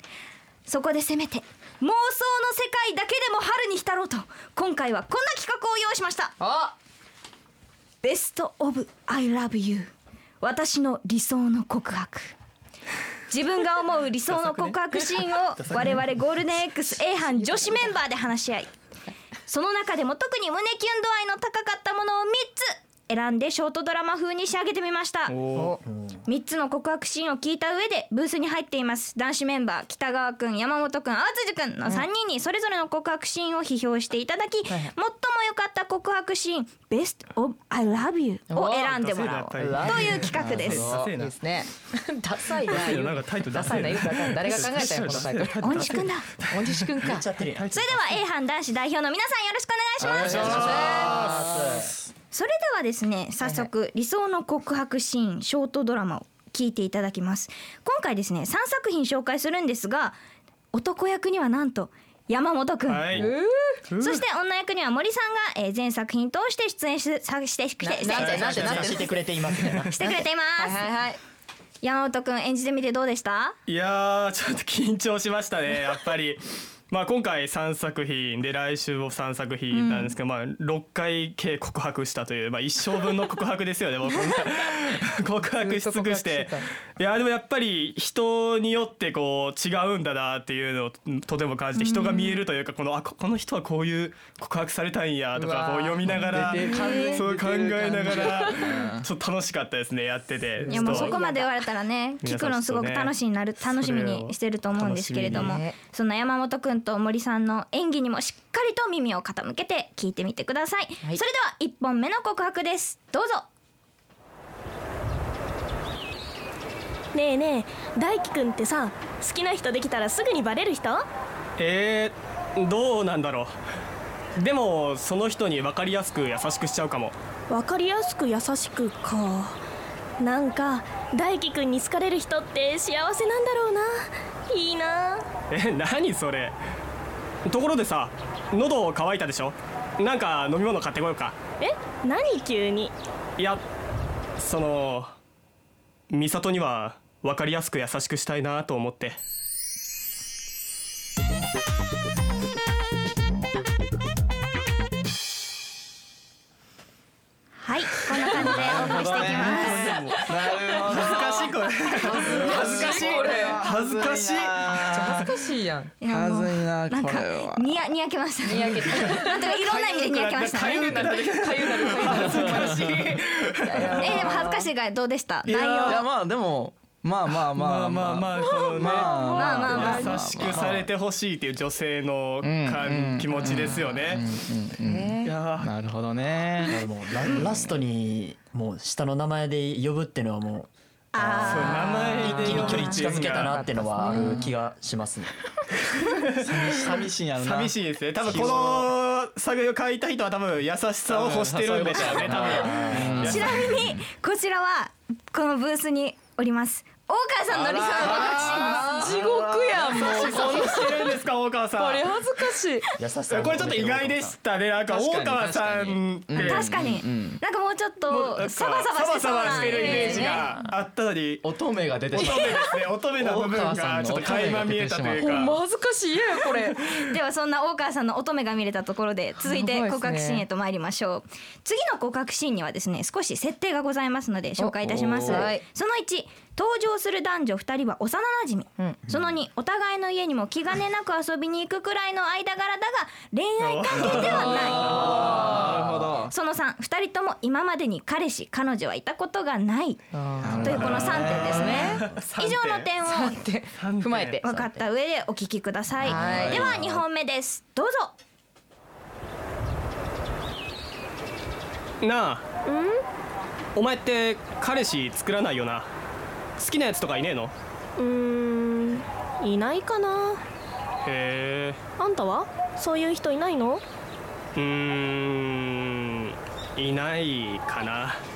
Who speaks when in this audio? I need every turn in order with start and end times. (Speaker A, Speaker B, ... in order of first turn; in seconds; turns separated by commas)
Speaker A: 0.7-6.3, Speaker B: 6.4-6.8, Speaker A: 8.0-9.9, Speaker A: 10.4-12.3, Speaker A: 13.3-18.7, Speaker C: 14.3-16.3, Speaker C: 16.9-17.5, Speaker A: 19.5-25.4, Speaker C: 25.3-25.8, Speaker B: 25.5-25.8, Speaker D: 25.9-26.2, Speaker A: 26.3-40.9, Speaker B: 38.5-39.0, Speaker C: 38.8-41.4, Speaker B: 39.5-47.3, Speaker E: 40.3-41.1, Speaker C: 42.6-48.1, Speaker A: 45.6-46.3, Speaker D: 47.0-48.0, Speaker A: 47.7-50.8, Speaker E: 50.0-51.9, Speaker C: 50.2-51.5, Speaker D: 50.3-51.9, Speaker B: 50.4-51.8, Speaker A: 52.3-60.2, Speaker B: 53.4-53.7, Speaker A: 60.7-63.1, Speaker C: 62.9-63.3, Speaker B: 63.1-63.5, Speaker C: 63.9-64.2, Speaker A: 64.0-68.7, Speaker B: 67.8-69.1, Speaker C: 68.2-69.1, Speaker D: 68.3-69.9, Speaker C: 69.6-69.9, Speaker A: 69.9-70.8, Speaker B: 70.0-71.2, Speaker A: 71.8-73.6, Speaker C: 73.7-101.2, Speaker A: 79.7-80.2, Speaker B: 85.6-86.7, Speaker A: 91.8-92.4, Speaker B: 95.3-97.3, Speaker E: 96.1-99.1, Speaker B: 98.0-98.5, Speaker B: 100.6-101.5, Speaker A: 100.7-113.5, Speaker C: 102.2-105.6, Speaker B: 105.3-105.8, Speaker F: 117.1-121.0, Speaker C: 121.6-123.5, Speaker C: 124.4-127.2, Speaker F: 127.5-129.6, Speaker F: 130.2-135.2, Speaker C: 135.5-136.6, Speaker C: 137.4-141.4, Speaker F: 141.6-142.9, Speaker C: 143.4-143.6, Speaker C: 144.4-145.1, Speaker C: 146.1-149.2, Speaker A: 157.6-160.0, Speaker E: 158.3-165.2, Speaker C: 159.2-165.3, Speaker B: 162.0-163.7, Speaker B: 164.9-165.9, Speaker A: 166.0-171.1, Speaker E: 166.1-167.7, Speaker B: 168.4-169.6, Speaker C: 168.9-174.3, Speaker B: 170.5-174.7, Speaker E: 172.2-172.7, Speaker A: 174.0-176.0, Speaker C: 175.4-176.1, Speaker E: 175.8-180.7, Speaker C: 177.3-184.2, Speaker F: 178.4-179.5, Speaker A: 179.1-180.1, Speaker D: 180.4-180.9, Speaker E: 182.4-186.8, Speaker B: 183.4-183.8, Speaker B: 184.8-185.3, Speaker C: 185.2-185.7, Speaker D: 186.7-195.3, Speaker A: 191.1-192.9, Speaker C: 191.5-193.6, Speaker B: 192.2-194.5, Speaker E: 194.1-194.5, Speaker C: 196.0-203.5, Speaker E: 196.4-198.9, Speaker E: 201.1-203.9, Speaker A: 202.0-202.2, Speaker D: 202.3-203.7, Speaker A: 203.2-209.2, Speaker C: 207.5-208.8, Speaker E: 207.8-210.4, Speaker B: 208.4-211.2, Speaker C: 209.8-212.1, Speaker A: 210.0-210.9, Speaker B: 211.8-212.9, Speaker D: 213.0-214.4, Speaker C: 213.3-216.7, Speaker E: 214.9-217.4, Speaker A: 216.4-220.5, Speaker C: 218.1-221.5, Speaker B: 219.5-220.5, Speaker E: 221.4-222.7, Speaker C: 222.1-225.6, Speaker A: 222.2-222.6, Speaker E: 223.2-225.5, Speaker B: 225.2-226.8, Speaker A: 227.1-245.4, Speaker B: 229.4-230.4, Speaker B: 234.6-235.6, Speaker E: 234.8-235.5, Speaker C: 243.6-246.1, Speaker E: 243.9-246.3, Speaker B: 245.2-245.6, Speaker A: 246.3-250.1, Speaker B: 250.1-252.0, Speaker E: 250.4-251.7, Speaker A: 250.6-253.4, Speaker C: 250.7-252.9, Speaker B: 253.1-254.8, Speaker C: 253.8-254.4, Speaker A: 254.4-258.1, Speaker E: 256.0-257.0, Speaker B: 256.0-256.8, Speaker C: 262.0-262.4, Speaker F: 262.7-263.0, Speaker C: 263.8-265.9, Speaker C: 266.6-267.5, Speaker F: 268.0-270.4, Speaker C: 271.1-271.8, Speaker F: 272.0-273.8, Speaker C: 274.6-278.2